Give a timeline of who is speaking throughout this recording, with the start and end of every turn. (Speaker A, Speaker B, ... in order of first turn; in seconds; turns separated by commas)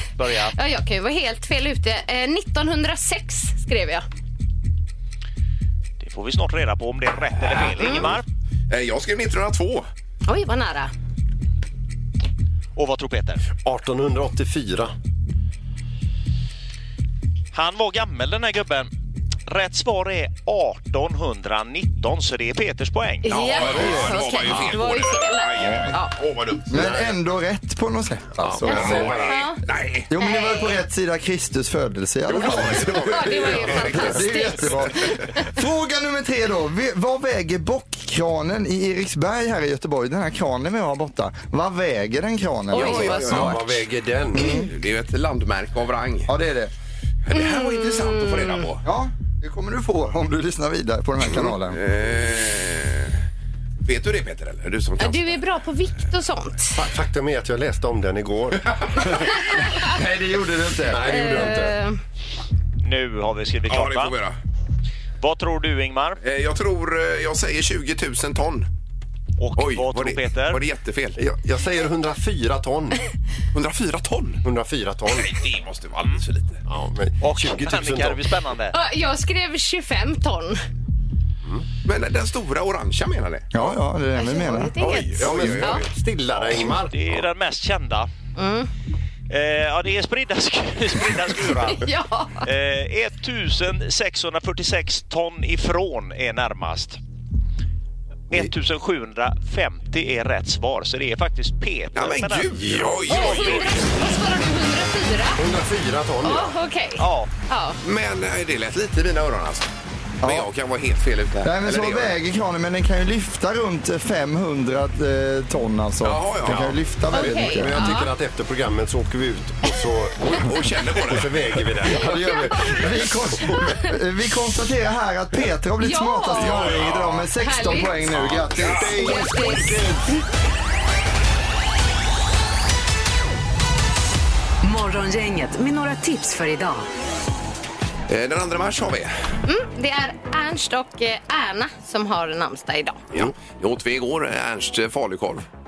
Speaker A: 0.2-0.6, Speaker B: 0.5-4.0, Speaker A: 6.0-8.2, Speaker C: 8.7-9.9, Speaker B: 10.3-10.9, Speaker A: 12.8-13.4, Speaker D: 13.6-14.9, Speaker A: 17.5-18.9, Speaker A: 19.5-23.5, Speaker B: 23.2-26.1, Speaker C: 23.3-27.0, Speaker E: 26.7-29.2, Speaker D: 26.8-27.1, Speaker D: 28.4-29.5, Speaker B: 28.7-29.6, Speaker C: 28.7-30.1, Speaker E: 30.1-43.5, Speaker B: 30.2-30.8, Speaker C: 32.3-34.7, Speaker B: 32.9-35.5, Speaker B: 42.7-43.6, Speaker C: 42.7-43.7, Speaker D: 43.1-44.6, Speaker C: 44.4-46.3, Speaker E: 46.3-46.7, Speaker C: 47.3-48.8, Speaker B: 47.3-48.6, Speaker E: 48.8-51.8, Speaker C: 51.3-53.2, Speaker C: 53.9-55.4, Speaker B: 55.0-56.8, Speaker D: 56.8-59.2, Speaker E: 59.8-61.3, Speaker D: 60.8-61.8, Speaker B: 61.0-62.0, Speaker A: 62.8-64.2, Speaker C: 63.7-64.3, Speaker A: 65.2-66.2, Speaker C: 66.2-68.7, Speaker A: 69.4-70.6, Speaker C: 69.6-71.2, Speaker D: 71.2-73.0, Speaker C: 73.5-74.4, Speaker D: 74.4-75.3, Speaker C: 75.1-76.6, Speaker D: 76.7-78.3, Speaker A: 77.2-78.8, Speaker B: 78.7-80.6, Speaker C: 81.8-83.7, Speaker E: 83.5-84.8, Speaker B: 84.2-85.8, Speaker C: 84.8-85.9, Speaker D: 85.2-87.2, Speaker A: 86.9-88.1, Speaker B: 88.4-88.7, Speaker A: 89.3-91.9, Speaker B: 91.6-92.5, Speaker A: 92.4-97.0, Speaker A: 98.3-103.8, Speaker C: 102.0-103.8, Speaker D: 102.7-103.0, Speaker B: 103.1-105.4, Speaker D: 105.4-106.5, Speaker B: 106.2-107.8, Speaker A: 107.0-107.3, Speaker C: 107.8-109.7, Speaker E: 110.2-110.5, Speaker C: 110.2-112.1, Speaker E: 111.4-117.9, Speaker C: 116.0-116.7, Speaker D: 116.5-122.8, Speaker B: 117.1-118.1, Speaker C: 120.3-121.5, Speaker E: 121.9-129.2, Speaker B: 125.8-126.7, Speaker C: 126.4-127.2, Speaker B: 127.4-128.1, Speaker C: 128.4-128.9, Speaker D: 128.6-130.0, Speaker B: 128.9-129.8, Speaker F: 134.6-136.9, Speaker C: 138.1-139.1, Speaker B: 139.5-143.0, Speaker C: 143.1-145.4